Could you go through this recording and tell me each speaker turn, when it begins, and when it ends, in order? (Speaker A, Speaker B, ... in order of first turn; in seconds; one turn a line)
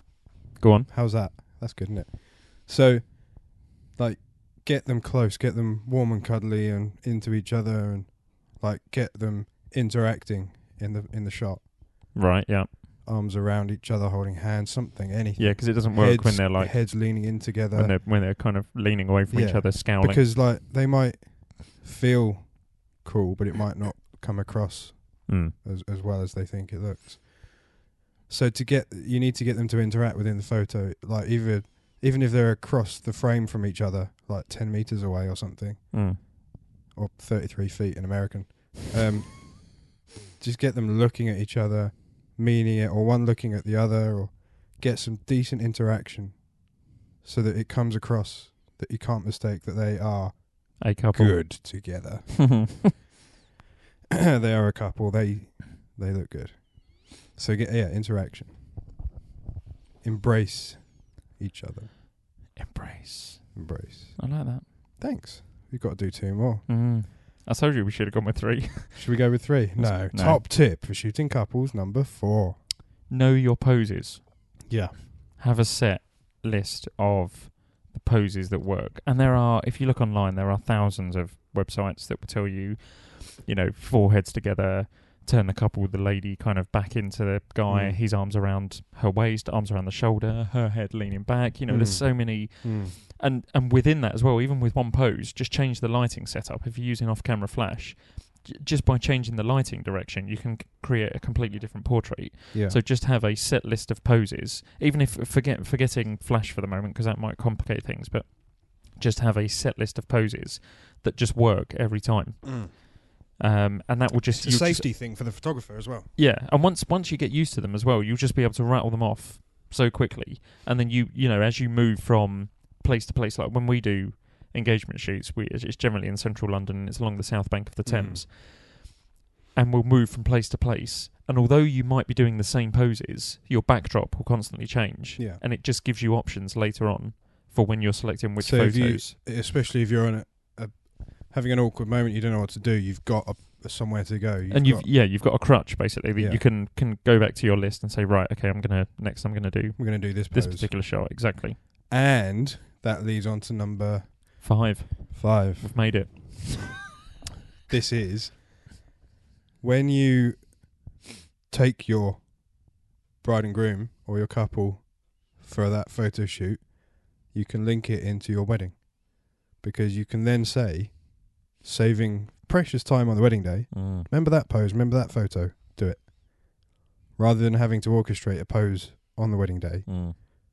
Speaker A: 0.6-0.9
Speaker B: 0.9-12.1
Speaker A: 12.1-12.8
Speaker B: 13.0-18.0
Speaker A: 15.4-20.2
Speaker B: 19.3-52.9
Speaker A: 25.3-25.5
Speaker A: 35.9-36.2
Speaker A: 50.8-52.9
Speaker B: 54.1-58.8
Speaker B: 60.0-61.9
Speaker A: 62.5-64.6
Speaker B: 63.5-66.7
Speaker A: 66.7-70.4
Speaker B: 68.9-72.6
Speaker A: 73.1-74.7
Speaker B: 74.7-75.0
Speaker A: 75.4-114.9
Speaker B: 87.7-88.0
Speaker B: 91.7-93.0
Speaker B: 102.5-102.8
Speaker B: 112.4-112.7
Speaker B: 114.3-116.1
Speaker A: 116.2-128.9
Speaker B: 127.8-128.2
Speaker A: 129.5-139.1
Speaker B: 135.2-135.4
Speaker B: 138.4-144.9
Speaker A: 144.5-151.6
Speaker B: 146.2-146.4
Speaker B: 149.8-150.9
Speaker B: 151.9-154.5
Speaker A: 154.4-156.7
Speaker B: 155.1-156.1
Speaker B: 157.7-158.7
Speaker B: 159.6-160.8
Speaker B: 161.5-180.2
Speaker A: 173.7-174.1
Speaker A: 179.8-180.2